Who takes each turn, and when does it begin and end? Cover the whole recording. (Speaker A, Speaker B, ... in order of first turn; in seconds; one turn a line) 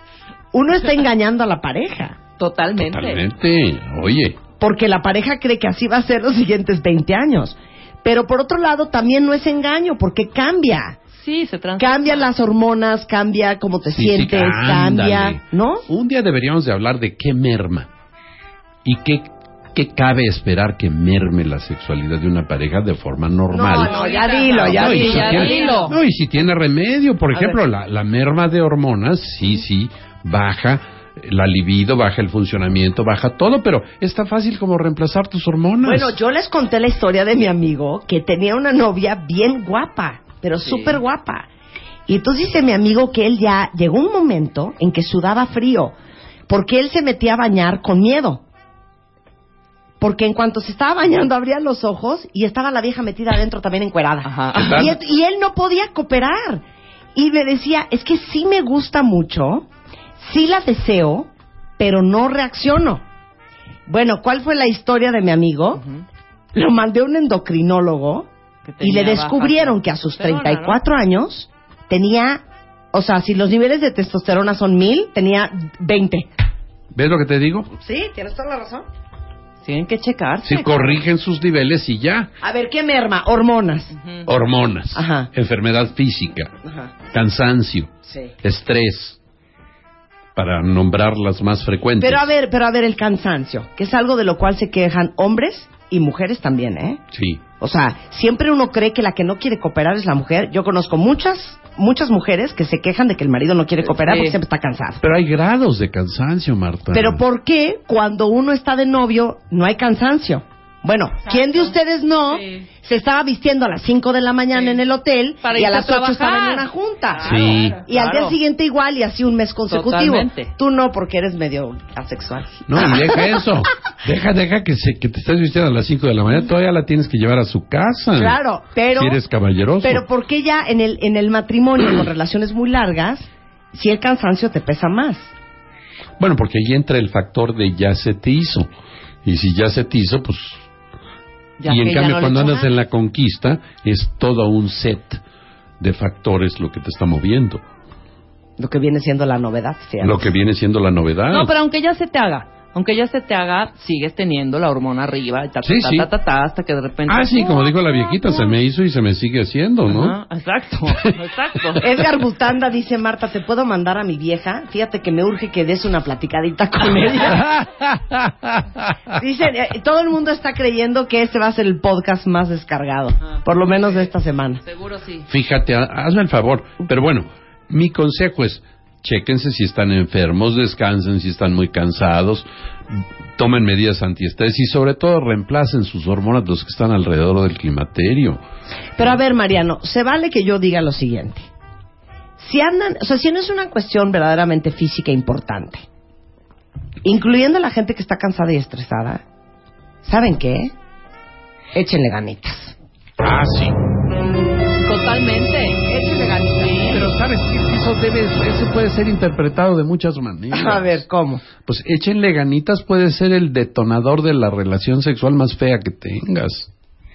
Speaker A: 0.5-2.2
Speaker B: 2.4-3.2
Speaker C: 2.8-4.4
Speaker A: 4.6-11.0
Speaker B: 11.1-12.3
Speaker A: 11.8-15.9
Speaker C: 13.9-17.9
Speaker C: 18.8-36.2
Speaker A: 23.5-25.9
Speaker B: 24.0-25.9
Speaker A: 27.3-27.6
Speaker A: 35.8-41.5
Speaker B: 40.6-41.0
Speaker A: 42.1-45.9
Speaker A: 46.5-48.4
Speaker A: 50.0-56.6
Speaker B: 54.2-54.9
Speaker C: 54.5-55.0
Speaker A: 57.1-59.7
Speaker A: 60.2-63.0
Speaker A: 63.9-65.8
Speaker A: 66.5-68.3
Speaker B: 68.7-70.8
Speaker A: 68.8-76.3
Speaker C: 76.9-77.7
Speaker A: 77.7-78.9
Speaker B: 79.6-80.9
Speaker C: 80.4-82.3
Speaker A: 82.4-84.0
Speaker C: 84.3-86.5
Speaker A: 84.9-85.3
Speaker A: 86.6-86.9
Speaker C: 87.1-89.2
Speaker A: 88.1-88.3
Speaker C: 90.4-92.3
Speaker A: 92.0-97.0
Speaker C: 97.1-97.4
Speaker A: 97.6-105.0
Speaker B: 103.9-104.4
Speaker C: 105.0-107.2
Speaker A: 106.9-123.4
Speaker B: 115.4-116.7
Speaker C: 117.2-117.8
Speaker B: 117.2-118.4
Speaker B: 119.7-120.5
Speaker C: 122.7-128.4
Speaker A: 128.1-129.2
Speaker C: 128.9-130.1
Speaker A: 129.8-135.3
Speaker C: 136.2-138.7
Speaker C: 139.2-140.6
Speaker B: 141.6-142.7
Speaker C: 141.7-145.2
Speaker C: 145.8-147.6
Speaker A: 148.6-150.3
Speaker C: 150.0-151.6
Speaker B: 151.3-157.7
Speaker C: 155.6-156.1
Speaker C: 157.1-160.2
Speaker B: 159.9-162.0
Speaker A: 161.8-167.5
Speaker C: 167.3-168.9
Speaker A: 169.1-174.6
Speaker B: 173.7-174.0
Speaker B: 174.7-175.3
Speaker C: 175.3-188.4
Speaker A: 189.0-191.5
Speaker A: 192.4-195.8
Speaker A: 197.0-199.2
Speaker A: 200.0-200.7
Speaker A: 201.8-202.8
Speaker C: 203.2-203.8
Speaker B: 204.8-205.8
Speaker A: 205.9-207.1
Speaker C: 206.9-211.0
Speaker A: 210.5-211.4
Speaker C: 211.6-216.7